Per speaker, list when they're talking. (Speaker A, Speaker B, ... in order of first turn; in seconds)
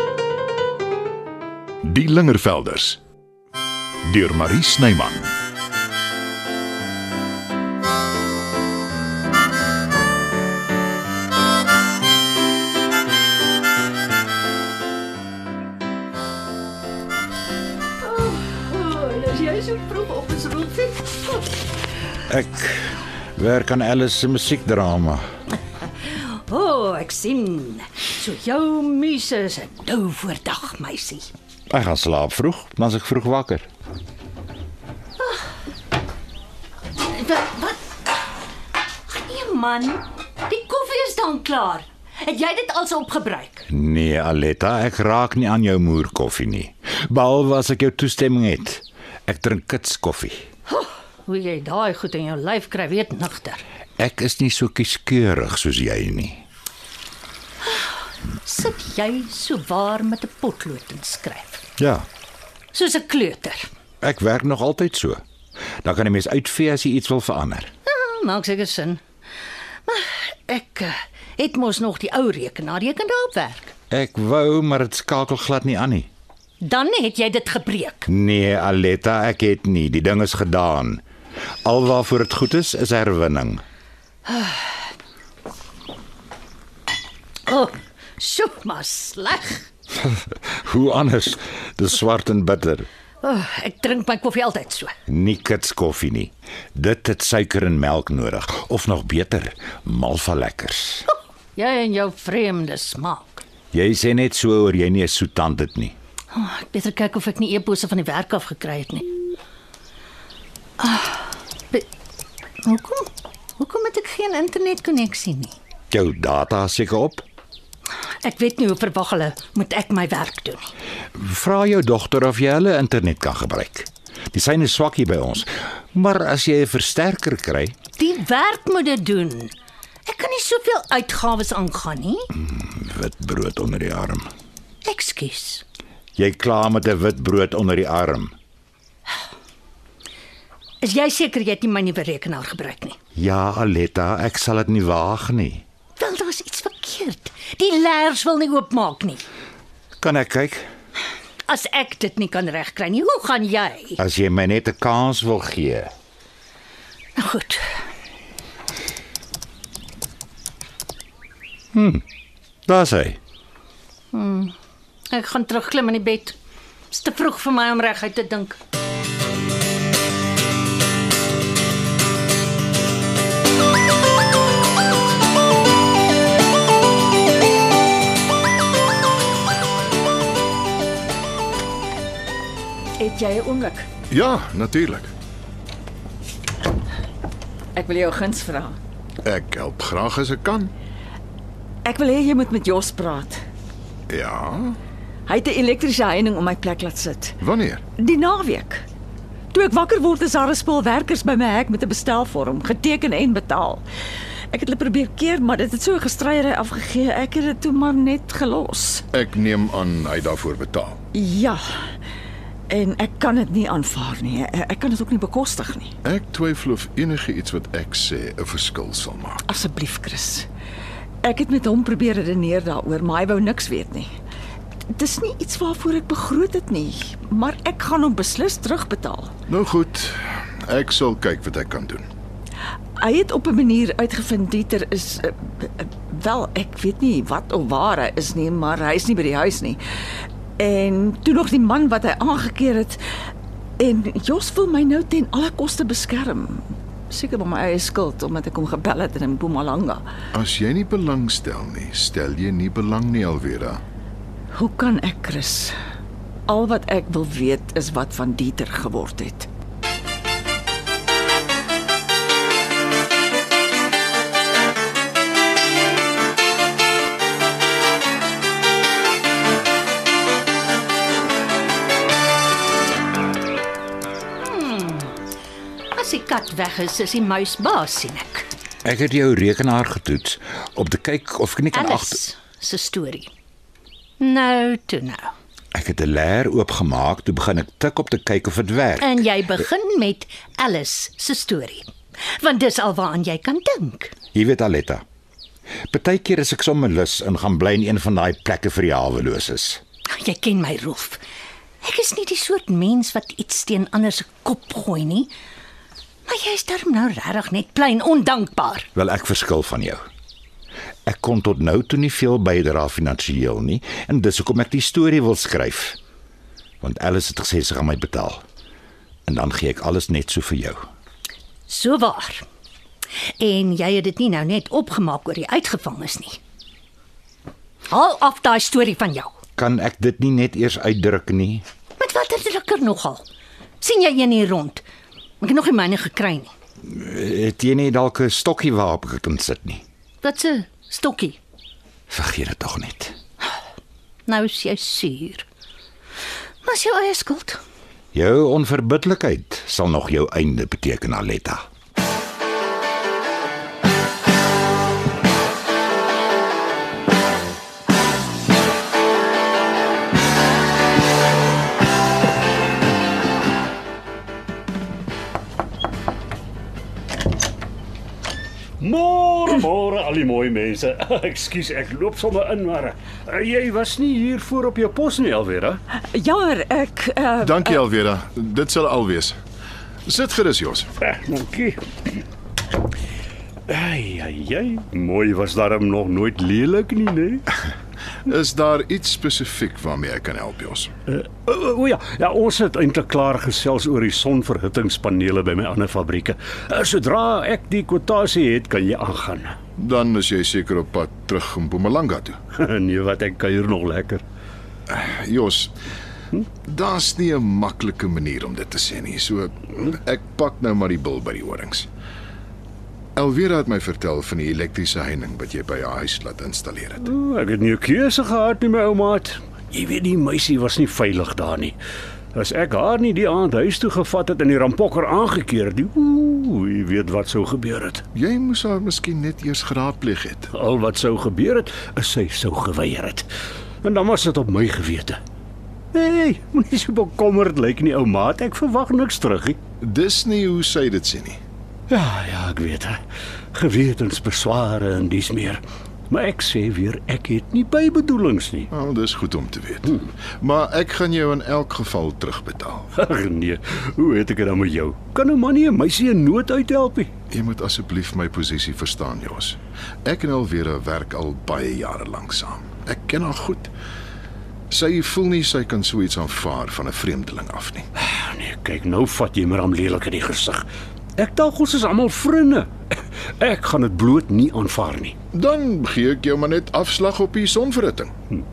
Speaker A: 1.8-3.0, 4.0-5.3, 184.1-185.1, 189.2-190.7, 194.1-194.8, 197.4-197.9, 209.1-211.0, 216.0-219.4, 229.5-232.1, 250.3-253.8, 377.4-379.4, 380.1-380.9, 388.3-390.9, 399.8-402.4, 404.9-405.8, 406.7-411.9, 413.2-417.1, 428.1-430.5, 439.8-441.4, 448.7-452.9, 457.3-463.7, 464.7-467.8, 475.3-478.1
Speaker B: 18.0-21.5, 26.0-31.3, 37.0-37.8, 39.1-43.7, 51.2-53.6, 58.4-61.6, 62.7-63.7, 67.9-69.0, 69.9-73.7, 76.6-78.1, 84.3-84.7, 87.5-89.7, 93.2-95.0, 101.1-103.4, 106.3-109.1, 110.8-111.9, 112.6-115.5, 118.2-120.7, 128.0-129.5, 130.1-132.3, 134.8-135.6, 140.8-143.0, 146.0-149.2, 151.5-154.0, 157.2-157.7, 164.1-164.5, 165.1-166.4, 166.9-168.6, 274.4-275.2, 275.9-278.5, 281.7-283.3, 284.2-285.3, 289.0-294.2, 300.1-301.2, 301.8-305.3, 306.3-308.9, 321.7-322.4, 323.4-326.4, 327.9-329.4, 332.0-333.2, 333.8-334.8, 335.4-336.5, 340.2-341.4, 344.3-345.4, 346.6-347.6
Speaker C: 22.3-25.2, 31.7-33.7, 43.7-50.4, 54.0-56.4, 61.8-62.1, 64.0-65.2, 65.8-67.7, 73.9-76.1, 78.1-81.0, 81.7-83.6, 90.0-92.9, 95.1-101.1, 103.7-106.0, 115.9-117.2, 121.2-127.7, 132.4-134.3, 136.2-138.3, 143.2-145.6, 150.0-150.7, 154.0-155.9, 161.7-162.0, 162.7-163.2, 278.8-282.2, 285.7-289.2, 294.3-295.0, 295.9-299.8, 308.9-310.0, 311.1-316.0, 316.8-318.4, 319.3-320.8, 329.6-331.6, 336.8-339.8, 342.1-343.1, 348.1-351.7
Speaker D: 183.0-183.9, 187.8-188.8, 191.8-193.4, 195.3-197.4, 197.9-198.8, 199.5-203.8, 204.5-209.1, 211.1-211.7, 212.7-215.9, 219.5-220.5, 221.2-224.1, 224.9-229.3, 233.0-239.8, 240.6-243.0, 243.8-250.0, 254.5-255.8, 256.5-259.5, 375.9-377.8
Speaker E: 368.8-375.8, 381.0-381.9, 383.7-387.5, 391.1-399.6, 402.5-404.2, 417.0-421.8, 422.4-428.0, 430.5-433.3, 433.8-435.2, 435.9-439.6, 441.9-443.0, 443.5-448.7, 453.0-457.1, 468.0-470.7, 471.2-475.2